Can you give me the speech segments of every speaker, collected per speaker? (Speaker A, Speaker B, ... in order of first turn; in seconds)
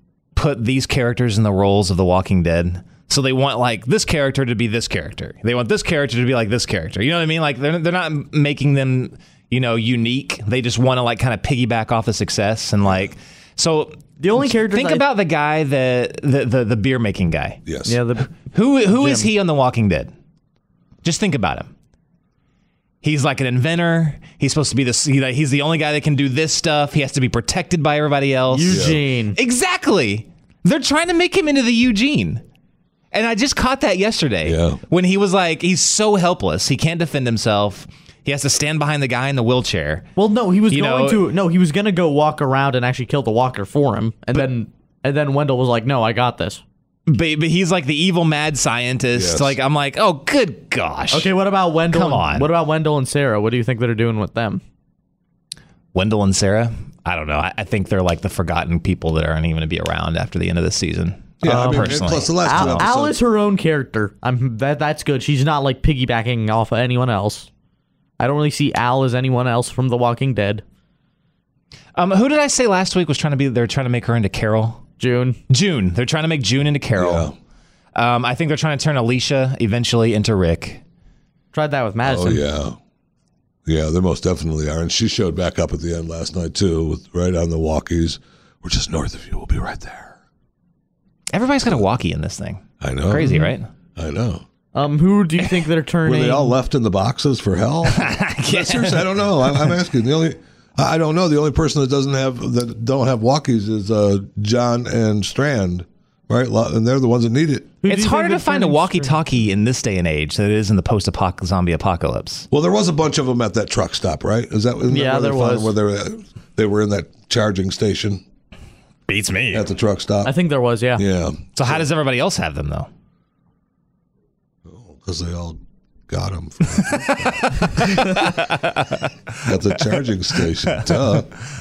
Speaker A: 0.3-17.6, 18.3-20.1, 21.0-21.7, 23.0-32.4, 33.1-40.1, 40.7-41.3, 47.1-51.3, 51.9-52.5, 55.9-62.9, 72.0-74.8, 75.5-77.3, 78.0-80.8, 91.3-93.7, 97.9-99.7, 107.9-112.5, 119.1-119.7, 121.6-122.9, 126.8-129.5, 130.7-131.2
Speaker B: 14.2-15.0, 17.9-18.4, 18.9-19.3, 28.5-29.4, 40.2-46.6, 51.1-54.6, 61.4-67.5, 68.2-70.6, 75.0-75.4, 81.5-82.5, 94.7-96.6, 107.8-109.2, 114.9-115.8, 120.2-121.0
Speaker C: 17.7-18.0, 28.7-29.0, 34.4-34.8, 49.1-49.6, 61.4-63.2, 77.0-77.3, 82.0-82.8, 83.7-90.2, 92.8-94.5, 96.0-107.8, 112.5-118.2, 119.5-120.3, 121.0-121.9, 124.7-127.8, 129.5-131.4